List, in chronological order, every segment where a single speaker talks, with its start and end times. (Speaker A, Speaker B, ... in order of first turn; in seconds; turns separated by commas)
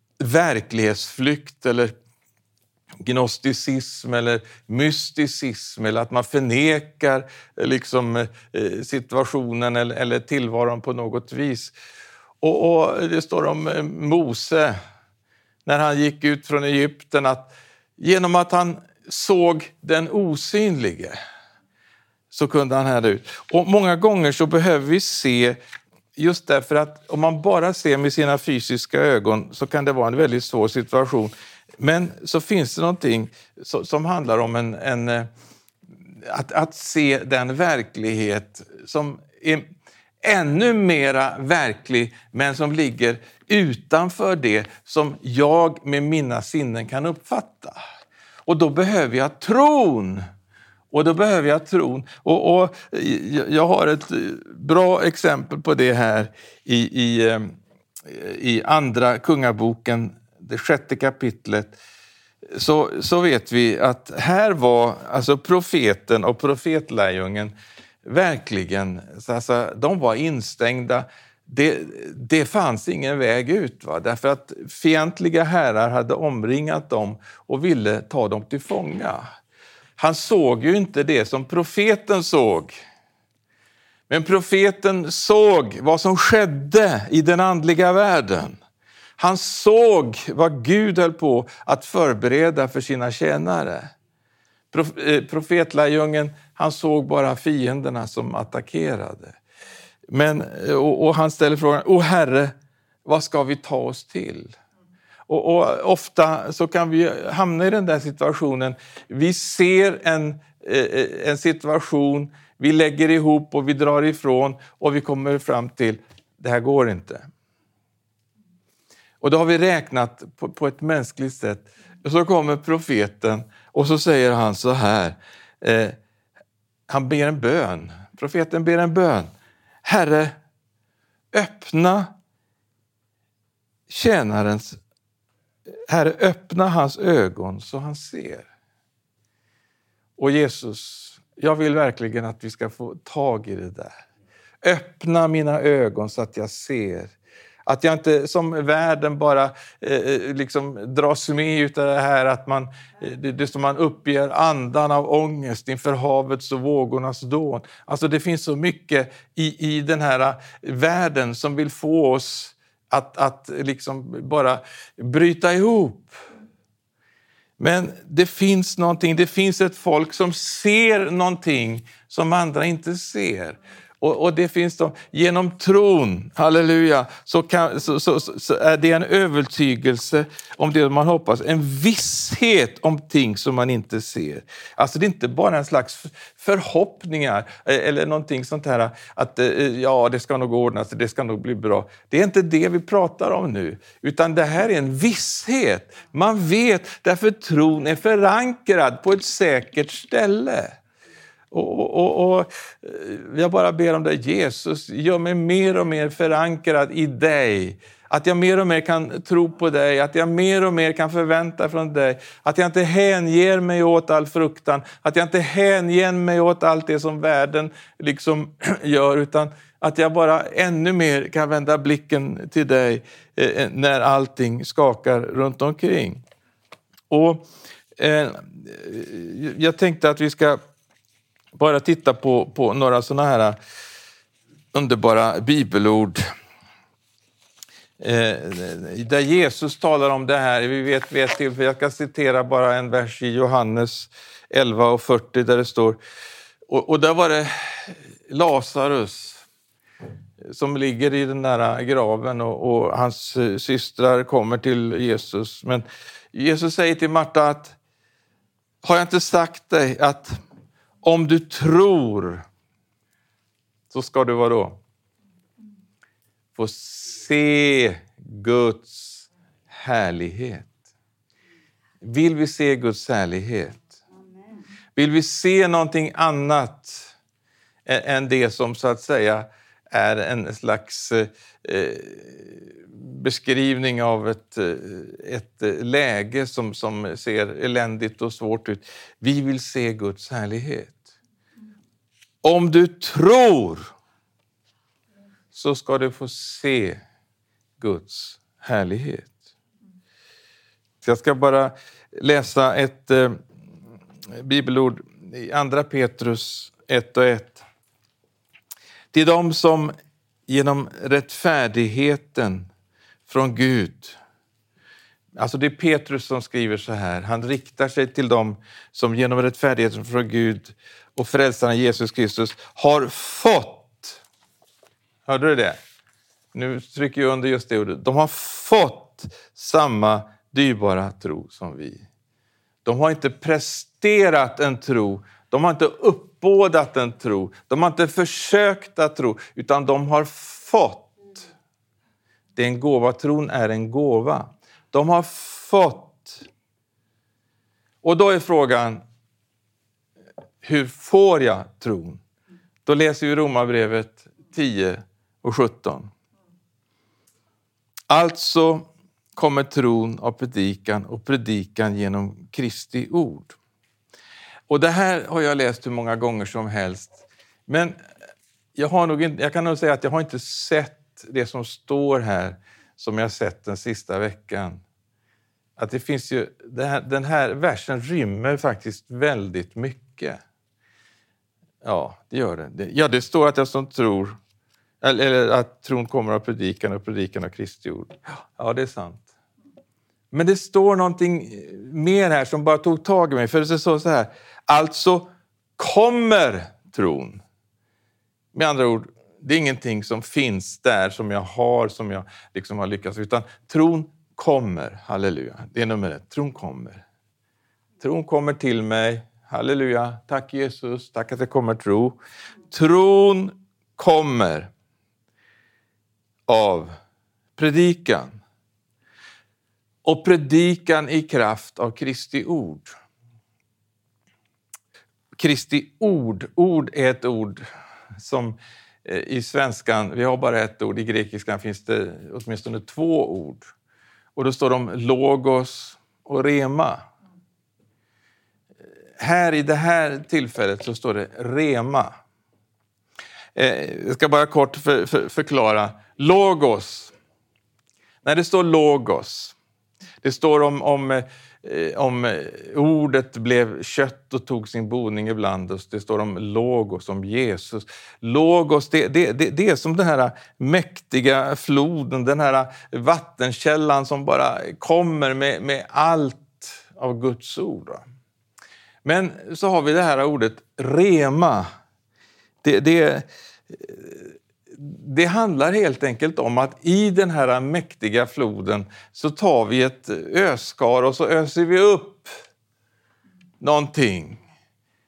Speaker A: 0.2-1.9, Speaker A: 3.0-11.7, Speaker A: 12.4-14.8, Speaker A: 15.7-21.2, Speaker A: 22.3-25.6, Speaker A: 26.1-35.3, Speaker A: 36.2-39.6, Speaker A: 40.2-47.8, Speaker A: 48.5-50.2, Speaker A: 50.9-61.8, Speaker A: 62.5-79.2, Speaker A: 80.0-82.8, Speaker A: 84.1-88.6, Speaker A: 89.2-93.9, Speaker A: 94.7-99.4, Speaker A: 100.1-102.5, Speaker A: 103.0-104.5, Speaker A: 105.3-117.2, Speaker A: 119.2-126.0, Speaker A: 126.9-129.3, Speaker A: 129.8-130.3, Speaker A: 131.3-132.1, Speaker A: 133.9-134.8, Speaker A: 135.9-138.5, Speaker A: 140.2-143.9, Speaker A: 144.6-147.1, Speaker A: 147.7-166.1, Speaker A: 167.6-200.8, Speaker A: 201.5-226.2, Speaker A: 227.1-227.4, Speaker A: 228.0-230.6, Speaker A: 231.6-233.6, Speaker A: 234.7-236.2, Speaker A: 238.0-246.0, Speaker A: 246.7-249.4, Speaker A: 250.4-257.8, Speaker A: 258.8-260.4, Speaker A: 261.0-262.4, Speaker A: 263.9-264.8, Speaker A: 266.5-270.7, Speaker A: 272.0-273.9, Speaker A: 274.9-277.1, Speaker A: 277.9-291.1, Speaker A: 292.4-293.9, Speaker A: 295.5-297.0, Speaker A: 297.8-299.3, Speaker A: 301.0-303.4, Speaker A: 304.3-307.6, Speaker A: 309.1-309.9, Speaker A: 310.5-312.7, Speaker A: 313.3-314.2, Speaker A: 315.4-324.2, Speaker A: 325.2-325.8, Speaker A: 326.5-332.0, Speaker A: 332.8-341.4, Speaker A: 342.6-346.4, Speaker A: 348.0-349.0, Speaker A: 350.6-352.2, Speaker A: 352.9-356.1, Speaker A: 358.1-363.5, Speaker A: 364.7-367.9, Speaker A: 368.8-374.8, Speaker A: 375.8-380.4, Speaker A: 381.8-384.4, Speaker A: 385.0-389.3, Speaker A: 390.3-397.4, Speaker A: 398.5-407.0, Speaker A: 408.0-412.2, Speaker A: 412.7-414.7, Speaker A: 416.5-416.9, Speaker A: 417.6-418.4, Speaker A: 420.0-422.9, Speaker A: 425.4-427.6, Speaker A: 428.2-433.7, Speaker A: 434.3-437.1, Speaker A: 439.2-442.1, Speaker A: 443.5-447.1, Speaker A: 448.2-449.5, Speaker A: 450.2-468.0, Speaker A: 469.0-471.6, Speaker A: 472.6-482.3, Speaker A: 483.6-484.4